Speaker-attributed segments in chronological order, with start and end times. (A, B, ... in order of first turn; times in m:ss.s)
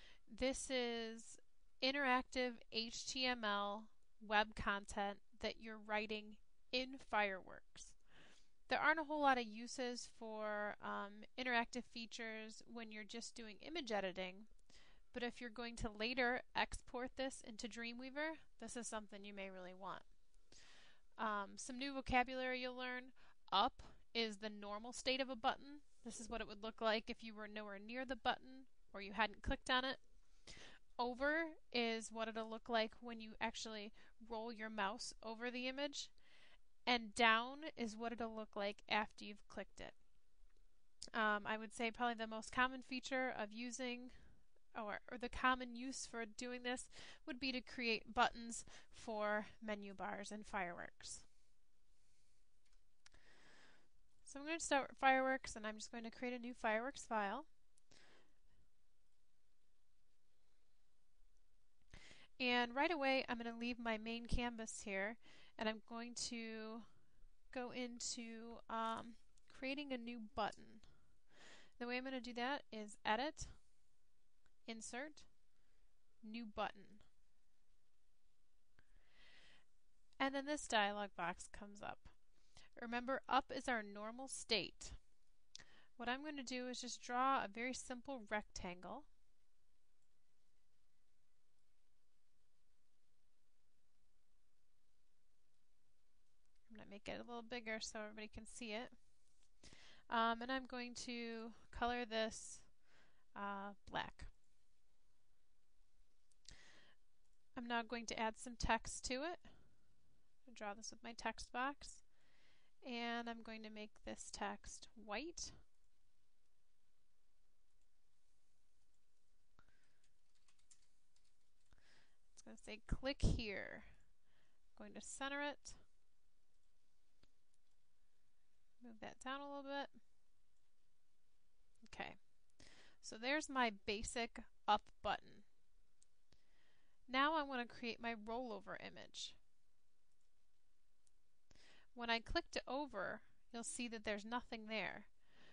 0:00.3-0:08.0 A
0:08.7-0:14.5 A
0:15.1-0:20.6 A
0:21.2-0:36.2 A
0:36.8-0:40.0 A
0:41.1-0:51.3 A
0:54.2-0:57.5 A
1:02.4-1:06.9 A
1:07.5-1:11.3 A
1:11.8-1:13.8 A
1:14.6-1:15.4 A
1:16.2-1:17.1 A
1:20.2-1:25.2 A
1:26.0-1:29.1 A
1:36.7-1:44.3 A
1:47.6-1:52.2 A
1:52.8-1:55.6 A
2:02.3-2:04.2 A
2:04.7-2:05.8 A
2:08.8-2:10.0 A
2:11.8-2:15.5 A
2:17.1-2:19.4 A
2:21.9-2:25.2 A